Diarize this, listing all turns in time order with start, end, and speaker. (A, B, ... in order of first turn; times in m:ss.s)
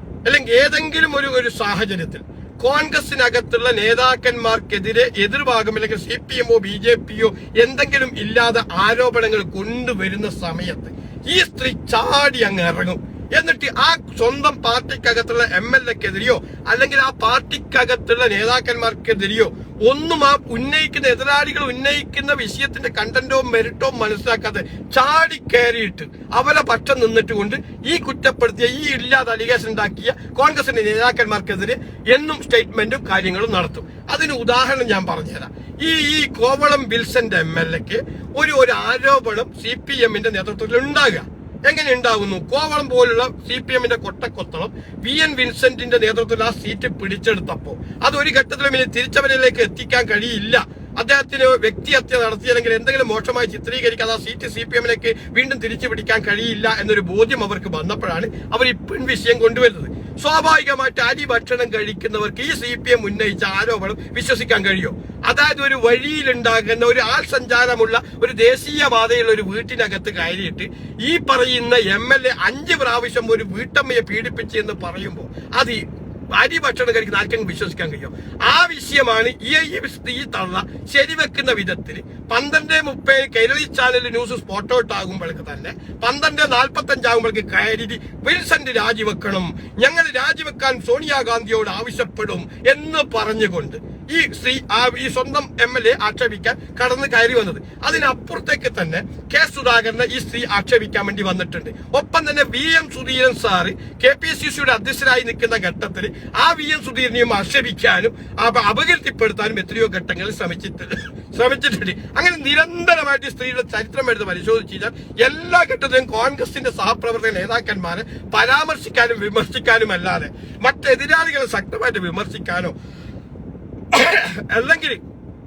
0:00.3-1:15.8 A
1:16.3-2:02.8 A
2:03.9-2:05.0 A